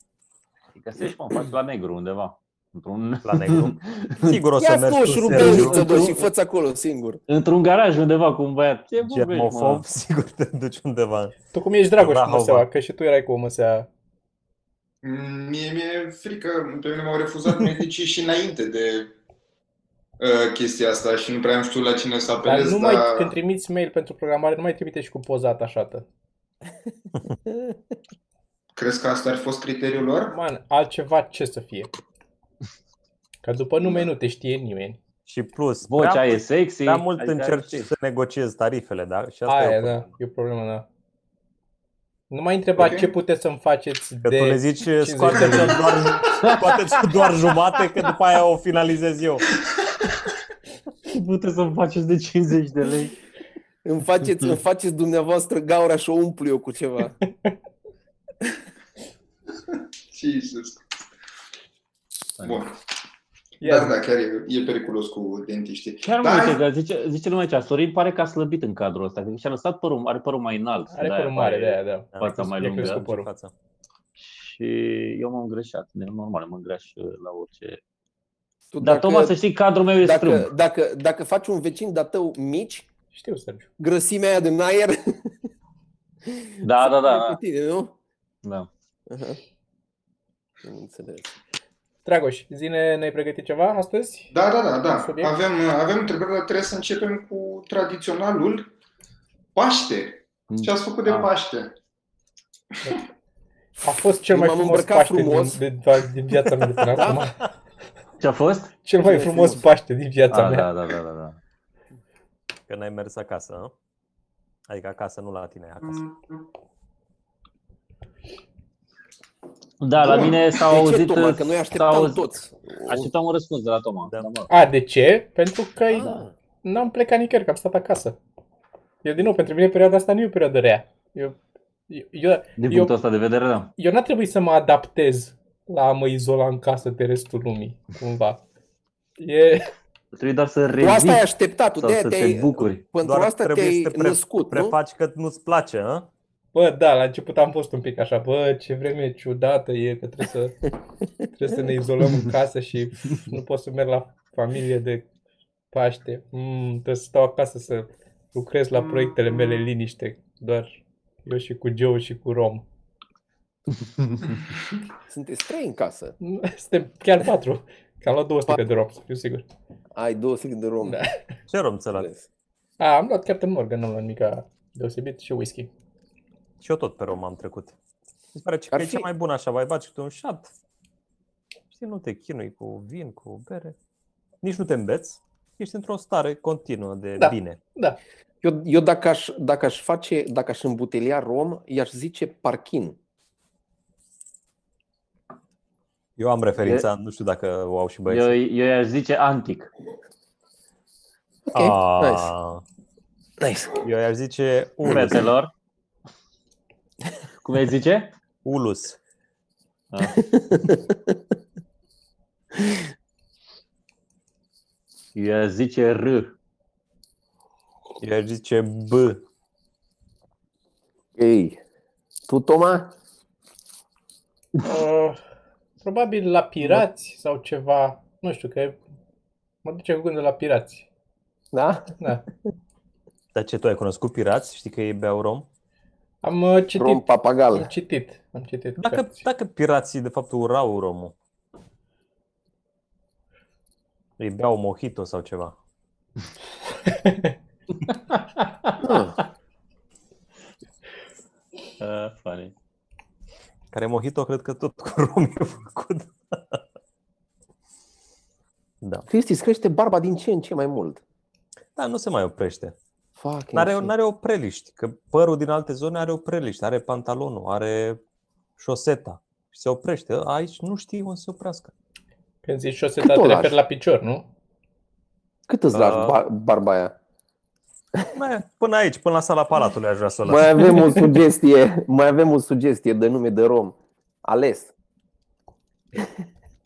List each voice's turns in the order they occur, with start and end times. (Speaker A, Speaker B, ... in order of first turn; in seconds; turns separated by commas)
Speaker A: 0.8-4.4, Speaker B: 3.2-5.9, Speaker C: 4.6-7.2, Speaker A: 5.3-6.3, Speaker A: 7.3-9.8, Speaker B: 9.0-11.3, Speaker D: 11.5-13.9, Speaker B: 12.0-12.7, Speaker E: 15.0-19.1, Speaker E: 20.2-23.3, Speaker D: 22.4-26.1, Speaker E: 28.8-30.4, Speaker D: 30.3-31.9, Speaker D: 33.4-35.0, Speaker B: 35.3-40.1, Speaker A: 35.9-37.9, Speaker D: 39.5-40.9, Speaker D: 42.3-45.9, Speaker E: 42.8-43.1, Speaker B: 44.2-49.5, Speaker A: 46.4-47.2, Speaker A: 51.1-53.1, Speaker C: 53.8-57.1, Speaker E: 59.7-60.8, Speaker E: 62.4-62.8, Speaker D: 63.6-64.0, Speaker E: 63.6-66.6, Speaker A: 66.0-73.0, Speaker D: 70.9-73.3, Speaker B: 72.1-73.5, Speaker A: 74.2-77.8, Speaker C: 78.7-79.3, Speaker A: 78.8-80.5, Speaker C: 80.0-82.9, Speaker D: 83.1-83.7, Speaker C: 83.8-85.3, Speaker C: 86.3-87.9, Speaker A: 86.6-87.4, Speaker C: 89.1-89.4, Speaker C: 90.6-91.3, Speaker D: 92.0-94.3, Speaker E: 94.3-98.7, Speaker D: 94.9-95.3, Speaker E: 99.5-101.7, Speaker A: 100.5-101.3, Speaker D: 103.8-107.5, Speaker C: 104.3-105.6, Speaker C: 107.0-107.2, Speaker A: 108.2-108.7, Speaker D: 108.8-110.7, Speaker C: 109.0-109.6, Speaker A: 110.3-111.4, Speaker B: 112.7-113.7, Speaker B: 114.7-116.1, Speaker A: 119.8-122.2, Speaker C: 120.0-123.1, Speaker A: 122.8-124.5, Speaker D: 124.5-128.2, Speaker C: 125.9-126.3, Speaker D: 129.0-132.9, Speaker A: 132.6-133.7, Speaker D: 133.8-138.4, Speaker D: 139.2-139.7, Speaker A: 140.1-141.3, Speaker C: 140.8-144.8, Speaker A: 141.8-142.8, Speaker B: 143.0-146.1, Speaker D: 146.5-150.6, Speaker D: 151.3-155.1, Speaker D: 155.7-162.6, Speaker A: 164.0-164.3, Speaker C: 165.1-166.2, Speaker D: 166.2-169.4, Speaker C: 170.0-171.0, Speaker D: 170.8-171.2, Speaker B: 171.5-172.1, Speaker C: 171.9-172.3, Speaker D: 172.8-175.7, Speaker B: 176.6-177.8, Speaker B: 178.4-180.5, Speaker C: 178.7-179.1, Speaker B: 181.7-183.8, Speaker B: 184.4-187.6, Speaker D: 187.2-188.0, Speaker C: 188.4-193.0, Speaker B: 196.2-198.4, Speaker A: 196.6-196.9, Speaker A: 198.1-199.7, Speaker C: 201.5-202.3, Speaker B: 201.5-202.6, Speaker C: 203.4-203.8, Speaker B: 203.8-205.3, Speaker A: 204.9-205.5, Speaker A: 207.4-208.2, Speaker B: 208.4-209.0, Speaker A: 209.9-210.2, Speaker C: 210.2-211.2, Speaker C: 212.5-212.8, Speaker A: 215.2-216.4, Speaker B: 218.0-219.2, Speaker C: 221.2-221.6, Speaker C: 222.3-222.9, Speaker D: 224.6-225.2, Speaker D: 225.8-228.8, Speaker D: 229.6-230.9, Speaker C: 231.5-232.0, Speaker D: 232.0-232.2, Speaker B: 233.3-235.5, Speaker D: 236.2-239.2, Speaker C: 236.8-237.7, Speaker B: 238.8-241.1, Speaker B: 244.2-245.6, Speaker D: 246.9-247.3, Speaker C: 248.8-249.2, Speaker A: 251.8-252.5, Speaker B: 253.7-256.6, Speaker B: 258.8-259.1, Speaker C: 259.1-261.0, Speaker B: 261.8-262.8, Speaker C: 263.2-263.9, Speaker B: 263.5-268.0, Speaker B: 268.6-271.7, Speaker D: 272.4-274.3, Speaker C: 273.0-273.6, Speaker C: 275.5-276.9, Speaker B: 275.7-276.2, Speaker B: 278.1-281.0, Speaker C: 280.3-284.7